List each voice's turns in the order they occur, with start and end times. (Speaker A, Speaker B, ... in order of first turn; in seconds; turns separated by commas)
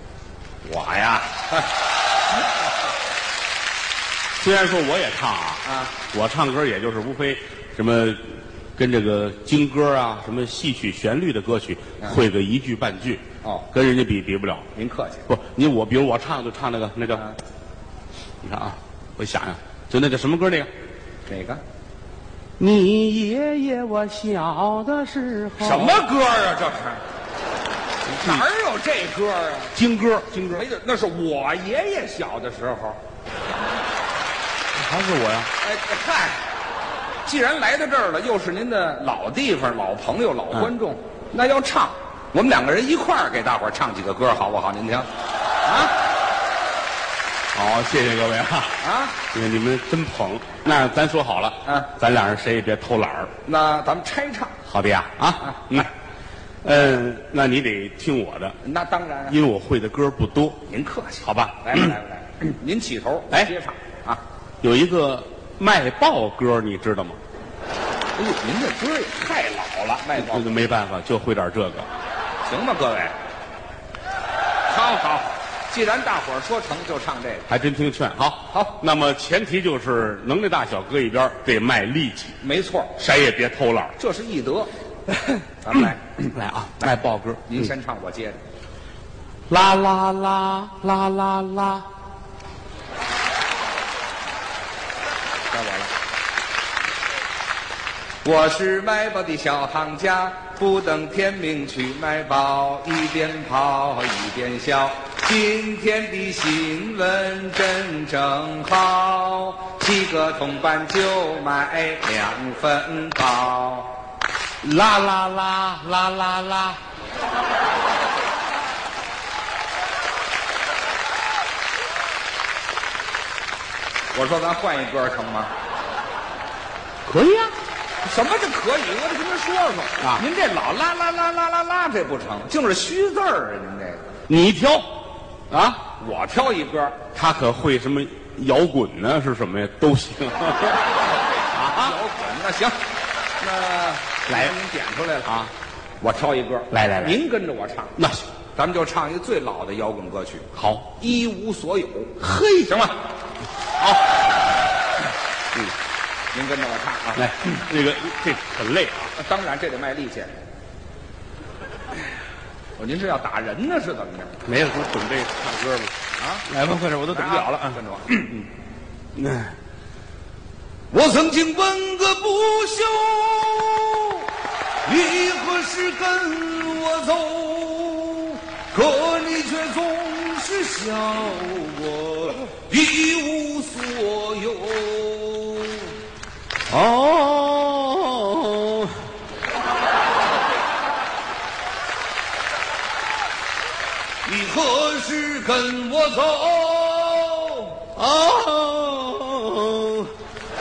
Speaker A: 0.6-1.4, Speaker A: 4.4-14.7, Speaker B: 5.6-6.0, Speaker B: 14.7-15.3, Speaker A: 15.3-17.2, Speaker B: 17.1-17.4, Speaker A: 18.4-20.7, Speaker B: 21.3-21.6, Speaker A: 22.6-26.0, Speaker B: 25.6-27.0, Speaker A: 28.0-28.4, Speaker B: 28.2-29.8, Speaker A: 29.7-30.6, Speaker B: 30.5-33.0, Speaker A: 34.7-35.5, Speaker B: 35.6-36.4, Speaker B: 37.2-45.1, Speaker B: 45.6-46.0, Speaker A: 47.5-48.8, Speaker B: 48.8-49.2, Speaker A: 49.3-53.3, Speaker B: 51.6-51.9, Speaker B: 53.4-54.6, Speaker A: 54.7-55.9, Speaker B: 55.4-55.8, Speaker A: 56.6-58.6, Speaker B: 58.6-59.4, Speaker A: 59.3-60.6, Speaker B: 60.7-64.2, Speaker A: 61.2-61.9, Speaker A: 64.6-67.2, Speaker B: 68.1-70.5, Speaker A: 70.1-71.9, Speaker B: 72.4-73.1, Speaker B: 74.7-77.5, Speaker A: 77.5-82.4, Speaker B: 78.5-78.8, Speaker B: 82.4-82.9, Speaker A: 83.0-84.0, Speaker B: 84.0-84.7, Speaker A: 85.1-87.7, Speaker B: 85.6-86.3, Speaker B: 87.5-88.4, Speaker A: 89.5-91.8, Speaker B: 95.5-95.9, Speaker B: 98.2-113.9, Speaker A: 114.6-116.8, Speaker B: 124.1-125.5, Speaker A: 127.0-127.5, Speaker B: 128.0-134.1, Speaker A: 134.3-134.9, Speaker A: 135.5-135.8, Speaker B: 135.9-137.1, Speaker A: 137.1-140.9, Speaker A: 141.5-142.0, Speaker B: 141.7-142.8, Speaker B: 143.4-145.3, Speaker A: 144.3-144.5, Speaker A: 145.2-145.5, Speaker B: 146.0-148.0, Speaker A: 146.7-147.2, Speaker A: 148.0-148.2, Speaker B: 148.5-153.0, Speaker A: 150.5-150.9, Speaker A: 152.2-152.7, Speaker A: 153.8-154.2, Speaker B: 156.3-157.6, Speaker A: 157.1-159.1, Speaker B: 159.2-160.4, Speaker B: 162.8-164.3, Speaker A: 164.4-165.9, Speaker B: 166.2-166.5, Speaker A: 166.5-167.8, Speaker B: 167.1-168.4, Speaker A: 169.1-169.5, Speaker B: 170.9-174.3, Speaker B: 174.8-186.0, Speaker A: 186.7-189.0, Speaker B: 194.2-197.9, Speaker A: 197.9-200.1